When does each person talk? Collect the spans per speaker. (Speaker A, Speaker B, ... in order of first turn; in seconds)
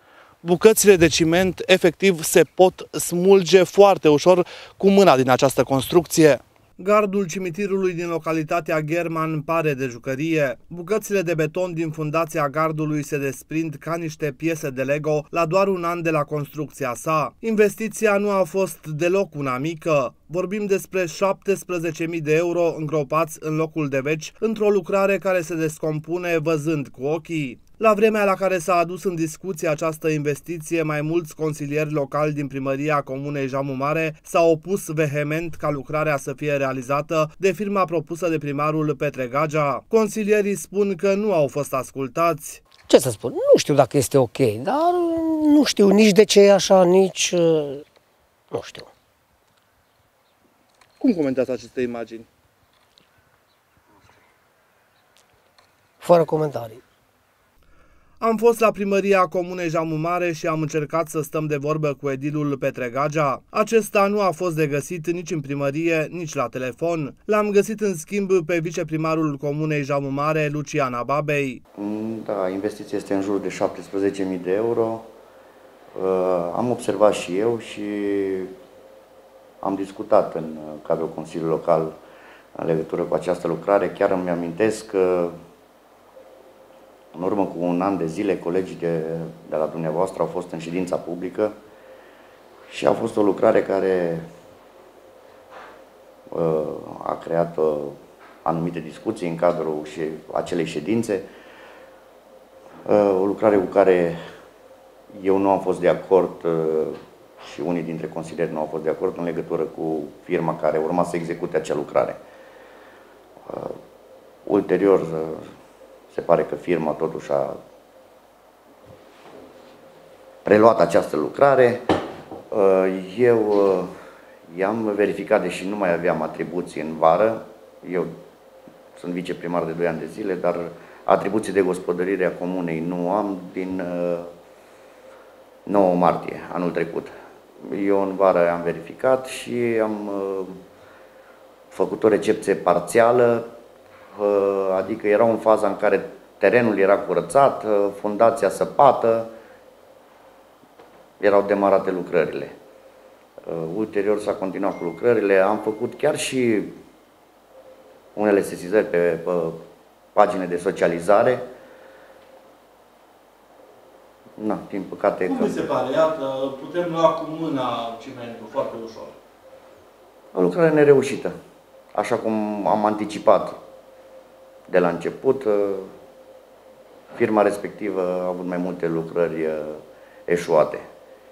Speaker A: 0.4-42.6, 51.0-52.3, 58.2-71.6, 165.3-169.1
Speaker B: 42.9-47.8, 48.5-48.9, 56.0-56.8
Speaker C: 71.8-75.1, 75.9-78.5, 79.6-81.9, 82.5-85.3, 87.1-91.5, 92.7-94.3, 96.3-101.2, 102.8-104.2, 105.1-112.2, 113.5-113.8, 114.5-115.5, 116.1-117.6, 120.4-123.9, 124.5-128.1, 128.9-134.3, 135.7-137.1, 137.6-140.6, 141.7-143.5, 144.1-149.3, 151.2-152.5, 153.4-156.8, 158.1-159.6, 160.1-161.4, 164.4-165.7, 170.3-171.3, 171.9-173.5, 174.7-175.9, 177.1-180.8